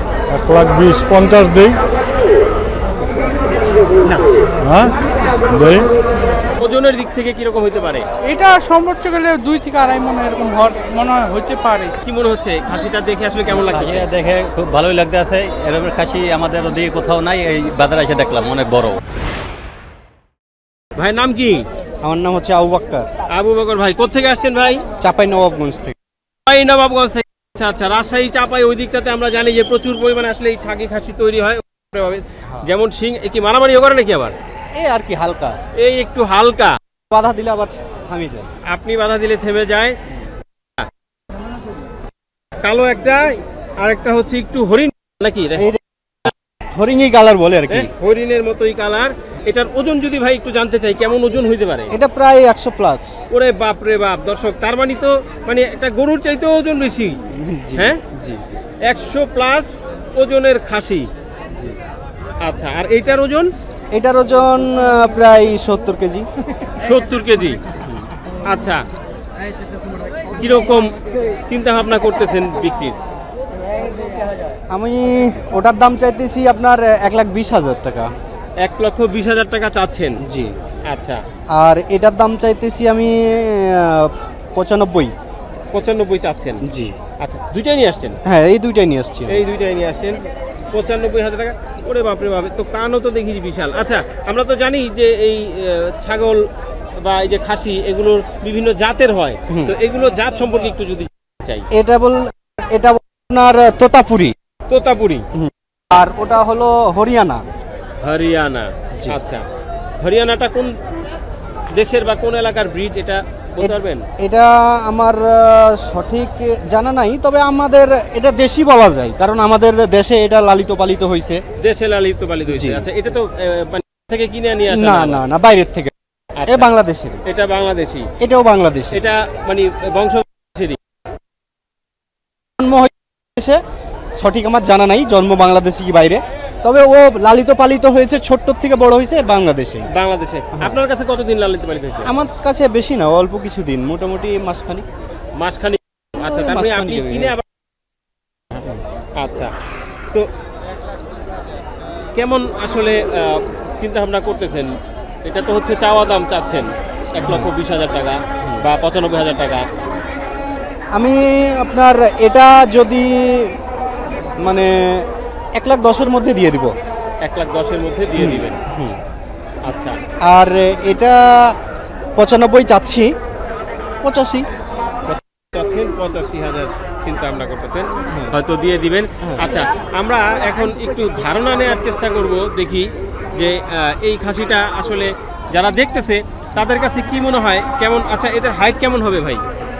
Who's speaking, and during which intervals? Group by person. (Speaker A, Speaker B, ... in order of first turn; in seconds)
Speaker A: 0.3-1.8, 4.6-4.9, 5.5-5.9
Speaker B: 6.6-8.0, 12.0-14.1, 20.9-21.6, 23.3-24.8, 26.5-34.3, 35.8-36.7, 38.7-40.0, 42.6-45.7, 47.7-51.9, 53.3-57.2, 58.9-61.1, 62.4-63.5, 66.8-67.6, 68.5-68.8, 70.4-70.9, 71.5-73.0, 78.6-80.2, 80.9-81.2, 85.7-86.6, 87.2-88.2, 89.3-90.2, 90.7-96.5, 97.0-101.7, 104.7-105.2, 108.0-109.4, 110.0-110.7, 111.8-114.0, 121.6-125.2, 126.4-126.7, 127.3-128.1, 128.9-130.8, 139.9-142.2, 145.4-147.4, 149.2-149.5, 152.2-154.7, 155.2-159.7, 167.2-168.6, 169.7-169.9, 175.1-189.4
Speaker C: 8.3-11.9
Speaker D: 13.5-19.0
Speaker E: 22.0-23.1, 25.0-25.9, 34.8-35.6, 37.1-38.5, 46.7-47.9, 51.9-53.2, 57.3-58.6, 63.9-66.3, 67.8-68.0, 74.7-78.1, 80.2-80.5, 81.5-85.1, 86.6-86.9, 88.2-89.4, 101.7-104.3, 105.3-107.4, 113.6-121.4, 122.5-122.8, 124.7-125.9, 126.5-127.2, 128.2-129.0, 132.6-133.6, 134.1-139.9, 140.5-140.8, 142.0-144.8, 146.3-147.3, 148.5-148.8, 157.2-157.5, 160.9-163.6, 164.4-166.8, 168.2-169.0, 170.2-171.5, 172.2-173.1, 174.0-174.4, 178.1-178.3